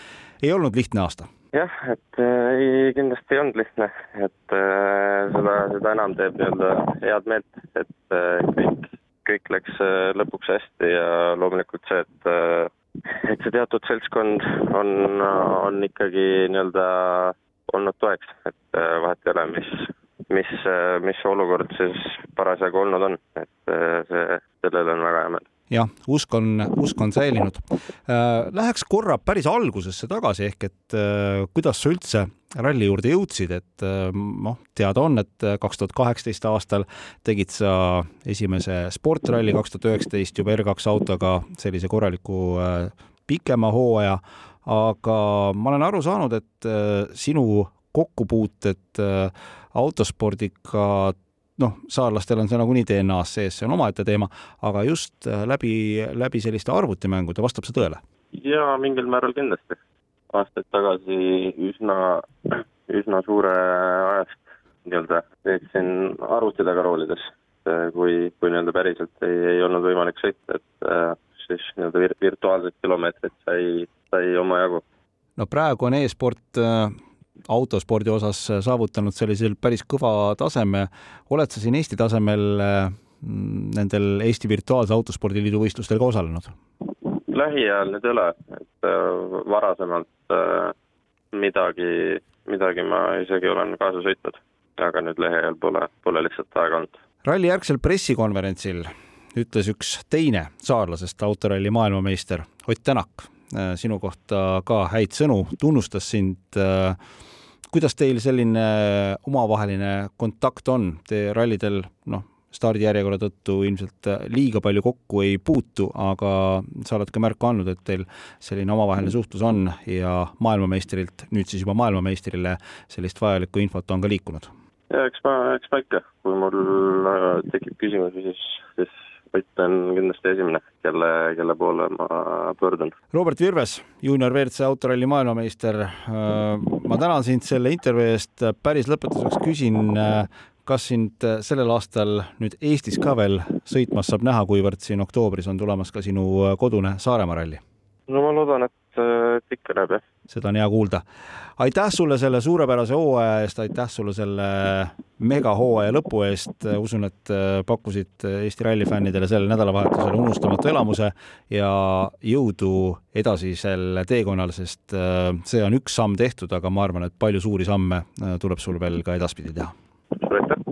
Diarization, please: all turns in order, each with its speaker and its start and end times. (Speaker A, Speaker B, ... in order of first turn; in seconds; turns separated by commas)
Speaker A: 0.4-1.3, Speaker B: 1.5-25.4, Speaker A: 25.7-58.0, Speaker B: 58.3-59.8, Speaker B: 60.3-74.8, Speaker A: 75.4-77.0, Speaker A: 77.5-86.5, Speaker B: 86.9-90.7, Speaker B: 91.3-97.0, Speaker A: 97.2-107.0, Speaker A: 107.7-124.5, Speaker B: 124.9-132.9, Speaker A: 133.1-147.6, Speaker B: 148.1-150.0, Speaker A: 150.3-151.0, Speaker A: 151.6-169.7, Speaker B: 170.2-170.6